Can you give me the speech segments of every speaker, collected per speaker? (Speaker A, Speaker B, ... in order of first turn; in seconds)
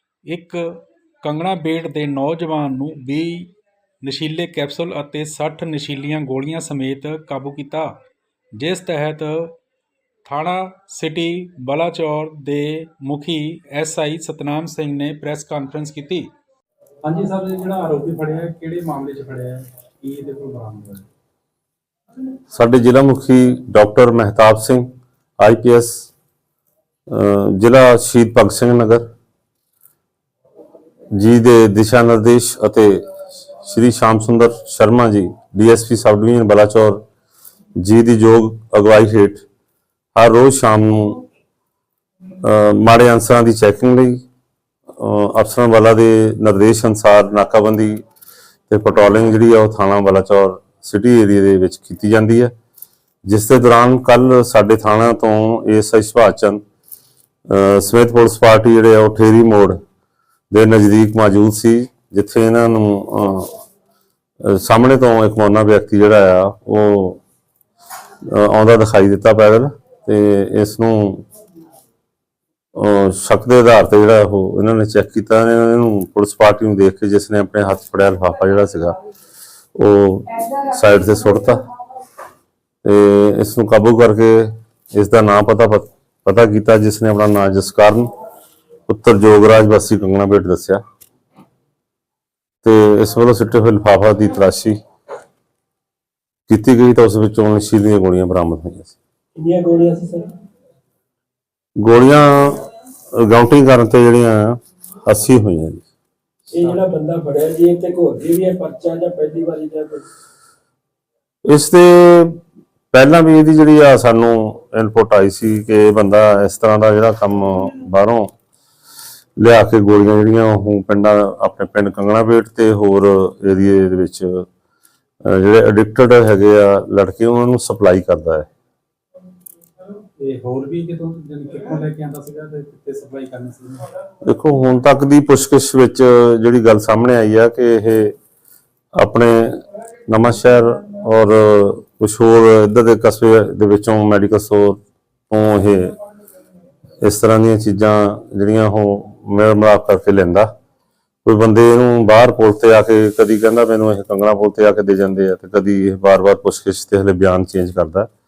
Speaker A: 0.3-3.5, 4.0-7.9, 8.6-9.6, 10.2-16.3, 17.1-21.1, 130.2-133.8
Speaker B: 22.5-24.9, 25.4-26.1, 27.1-29.1, 31.2-37.0, 37.8-39.5, 40.2-41.2, 42.4-44.2, 45.0-48.0, 48.7-52.5, 53.3-56.6, 57.5-59.8, 60.5-63.6, 64.4-67.2, 68.2-71.3, 72.8-79.0, 79.8-81.6, 82.8-88.1, 88.9-90.8, 92.6-94.8, 96.5-99.0, 101.8-102.6, 103.2-105.9, 111.5-112.4, 112.9-118.3, 119.4-124.5, 125.2-128.5, 134.2-138.2, 139.0-145.9, 147.0-150.5, 151.2-158.1
Speaker C: 99.4-100.3, 106.5-110.0